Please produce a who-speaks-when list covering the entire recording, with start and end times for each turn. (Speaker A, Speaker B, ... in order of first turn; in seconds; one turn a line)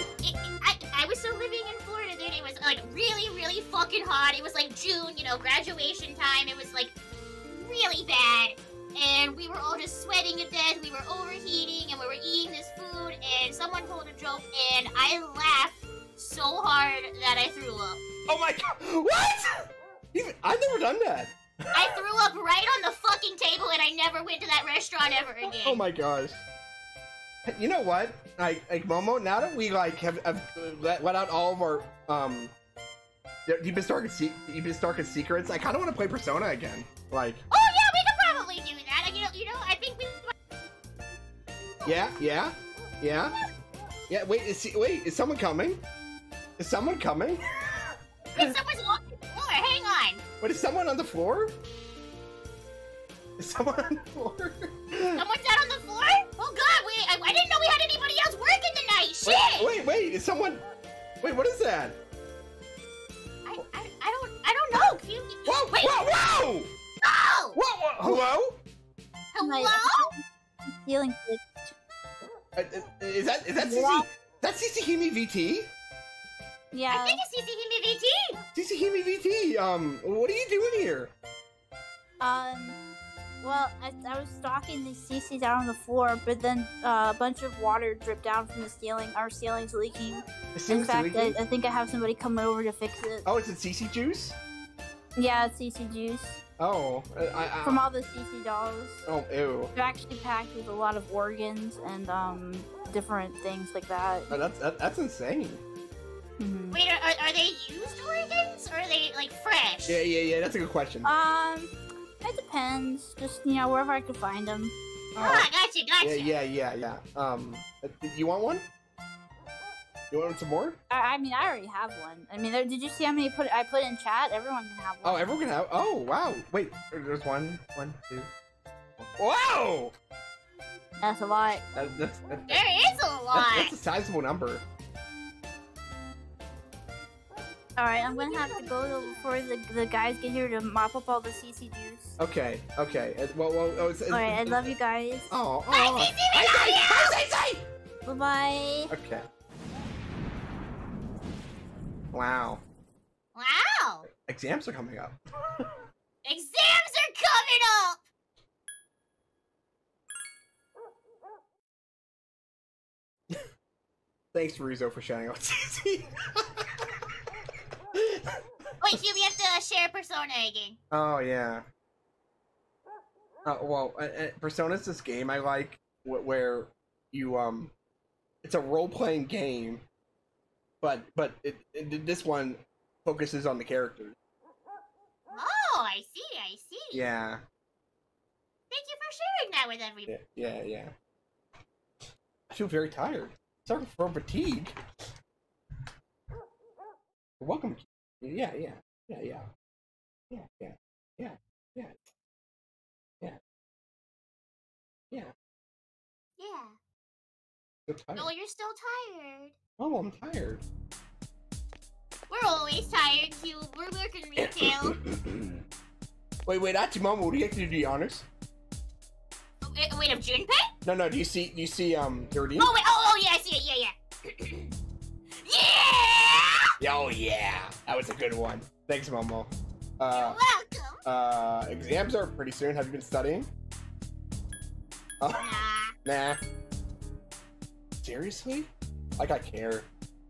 Speaker A: 0.2-6.9
Speaker A: 7.5-18.0
Speaker B: 18.3-22.0
Speaker A: 21.7-25.8
Speaker B: 25.4-26.4
Speaker B: 27.4-32.5
Speaker B: 33.5-37.4
Speaker A: 37.5-40.3
Speaker B: 41.8-43.4
Speaker B: 44.1-45.8
Speaker B: 46.6-47.4
Speaker A: 48.3-50.2
Speaker B: 50.4-51.5
Speaker B: 53.4-55.2
Speaker A: 55.1-59.7
Speaker B: 59.2-60.6
Speaker B: 61.2-62.0
Speaker A: 63.5-66.0
Speaker B: 65.4-66.8
Speaker A: 67.0-67.6
Speaker B: 67.5-68.6
Speaker A: 69.3-70.1
Speaker C: 69.4-70.2
Speaker C: 70.8-71.7
Speaker B: 72.5-75.7
Speaker C: 73.6-74.1
Speaker C: 76.7-77.2
Speaker A: 76.9-78.4
Speaker B: 78.5-81.1
Speaker C: 82.2-82.8
Speaker C: 83.4-93.2
Speaker B: 90.5-91.4
Speaker B: 93.2-94.4
Speaker C: 95.2-96.4
Speaker B: 96.6-97.8
Speaker C: 97.6-99.0
Speaker B: 99.1-99.7
Speaker C: 99.7-104.3
Speaker B: 104.3-105.6
Speaker C: 106.4-106.8
Speaker A: 106.7-110.0
Speaker B: 109.9-111.1
Speaker C: 111.0-114.7
Speaker B: 115.1-115.5
Speaker A: 115.2-116.3
Speaker B: 116.0-118.7
Speaker B: 120.1-120.8
Speaker C: 120.9-125.4
Speaker B: 125.0-128.3
Speaker B: 129.0-129.9
Speaker C: 131.0-131.6
Speaker B: 131.7-132.6
Speaker A: 132.5-133.7
Speaker B: 133.3-134.6
Speaker C: 137.8-142.2
Speaker B: 142.2-144.7
Speaker C: 144.1-145.3
Speaker B: 145.3-147.7
Speaker A: 145.7-147.2
Speaker C: 148.0-148.9
Speaker B: 148.9-149.3
Speaker B: 152.1-152.6
Speaker A: 153.3-154.0
Speaker B: 154.1-155.7
Speaker A: 156.2-158.0
Speaker B: 164.3-166.8
Speaker B: 167.9-168.4
Speaker A: 168.8-170.8
Speaker B: 170.9-171.7
Speaker B: 173.4-177.7
Speaker B: 178.4-179.8
Speaker B: 180.8-184.2
Speaker A: 185.3-187.1
Speaker B: 186.9-187.4
Speaker A: 188.7-190.1
Speaker B: 190.1-190.9
Speaker B: 192.5-194.8
Speaker B: 197.4-199.5
Speaker B: 200.3-202.1
Speaker A: 206.4-206.8
Speaker B: 207.9-208.3
Speaker A: 208.2-209.5
Speaker B: 209.8-210.6
Speaker A: 212.3-215.0
Speaker B: 214.4-215.6
Speaker B: 216.4-218.2
Speaker A: 219.6-220.7
Speaker B: 220.8-222.7
Speaker A: 222.6-224.7
Speaker A: 225.4-226.7
Speaker B: 226.8-230.4
Speaker A: 230.1-231.0
Speaker B: 231.0-233.5
Speaker B: 235.2-236.4
Speaker A: 235.3-235.9
Speaker B: 238.0-239.9